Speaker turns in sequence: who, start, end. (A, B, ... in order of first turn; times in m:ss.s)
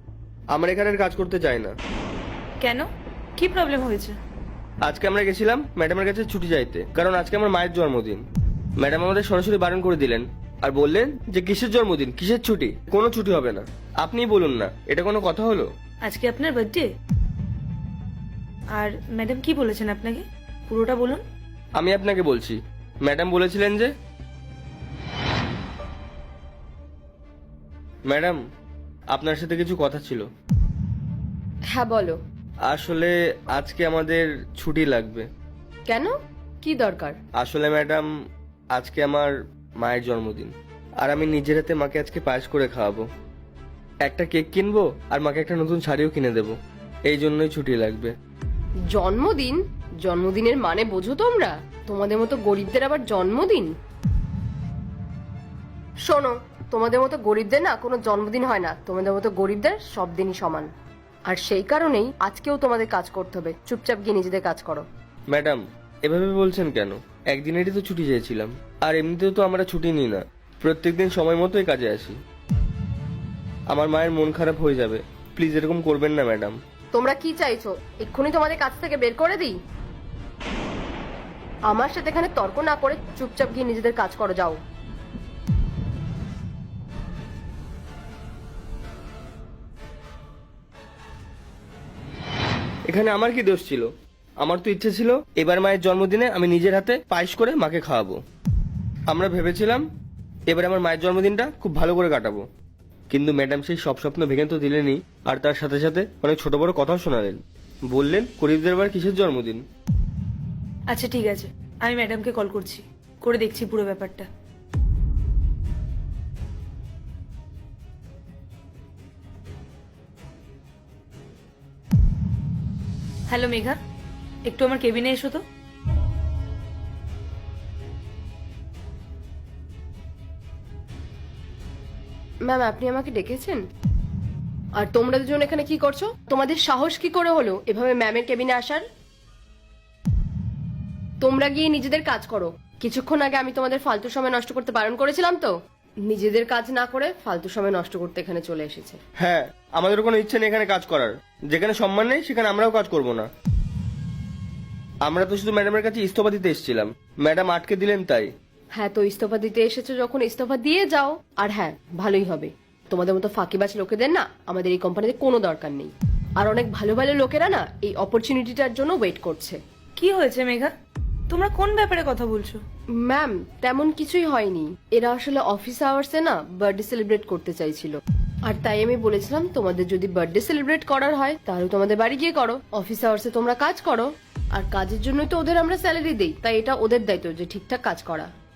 0:00.5-0:01.7 A
0:02.6-0:04.2 B
0:04.8-0:08.2 A
0:08.8-0:15.7 A
0:16.0-0:16.9 B
0:18.7-0:21.2 B
0:21.8-0:23.9 A
0:28.1-0:28.4 A
0:29.1-0:30.3 A
0:31.7-0:32.2 C
0:32.7-0:35.3 A
0:35.9-0:37.2 C
0:37.4-0:38.1 A
0:38.7-0:43.1 A
0:44.0-0:48.1 A
0:48.9-0:53.7 C
0:56.1-1:00.7 C
1:01.3-1:04.8 C
1:05.3-1:12.2 A
1:13.7-1:16.6 A
1:16.9-1:19.6 C
1:21.7-1:24.6 C
1:32.9-1:33.9 A
1:34.4-1:38.2 A
1:39.1-1:39.9 A
1:40.5-1:42.4 A
1:43.1-1:49.6 A
1:50.9-1:54.3 B
2:03.3-2:03.8 B
2:04.5-2:05.4 B
2:12.5-2:13.6 C
2:14.8-2:18.8 C
2:21.2-2:25.5 C
2:26.1-2:29.0 C
2:29.2-2:33.3 A
2:35.1-2:38.3 A
2:38.8-2:49.6 C
2:50.0-2:50.7 B
2:51.3-2:52.6 B
2:53.0-3:08.3 C